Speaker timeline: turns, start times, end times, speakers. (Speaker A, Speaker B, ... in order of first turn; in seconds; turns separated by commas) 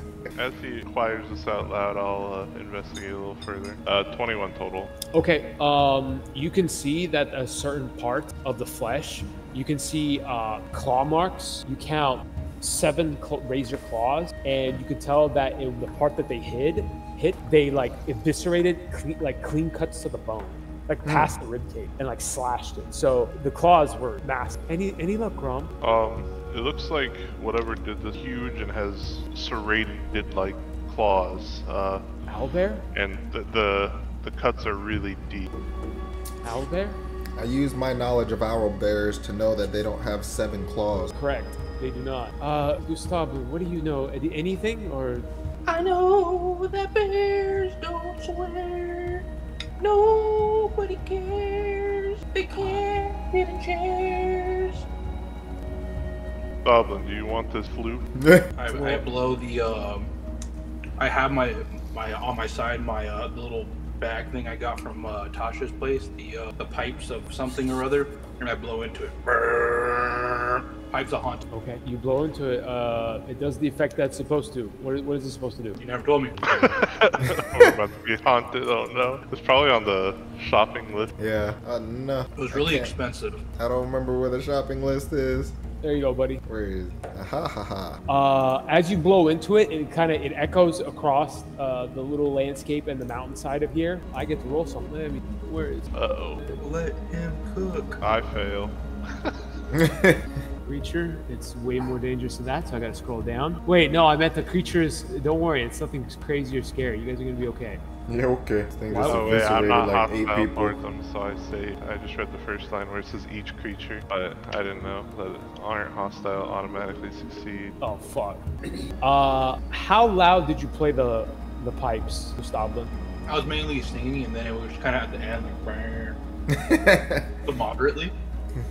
Speaker A: 0.4-4.9, Speaker B: 5.1-25.7, Speaker C: 21.1-21.3, Speaker A: 25.8-32.0, Speaker B: 32.3-32.9, Speaker A: 32.9-35.5, Speaker B: 36.4-37.0, Speaker C: 37.4-41.1, Speaker B: 41.1-45.3, Speaker D: 45.7-49.2, Speaker D: 49.8-54.9, Speaker A: 56.6-58.0, Speaker C: 58.1-58.5, Speaker E: 58.6-60.1, Speaker B: 58.7-59.0, Speaker E: 61.0-71.5, Speaker B: 71.5-75.8, Speaker E: 75.8-77.2, Speaker A: 76.4-81.1, Speaker C: 81.2-82.9, Speaker E: 82.4-83.4, Speaker C: 83.6-85.5, Speaker B: 85.8-86.4, Speaker C: 86.5-88.0, Speaker B: 88.1-95.9, Speaker A: 95.9-96.5, Speaker E: 96.5-98.0, Speaker A: 98.0-99.4, Speaker C: 99.7-100.2, Speaker B: 100.7-107.8, Speaker C: 108.1-110.7, Speaker B: 108.9-109.4, Speaker A: 109.0-117.8, Speaker B: 117.8-118.5, Speaker B: 119.0-122.9, Speaker E: 123.3-126.2, Speaker C: 126.5-127.3, Speaker E: 127.5-128.1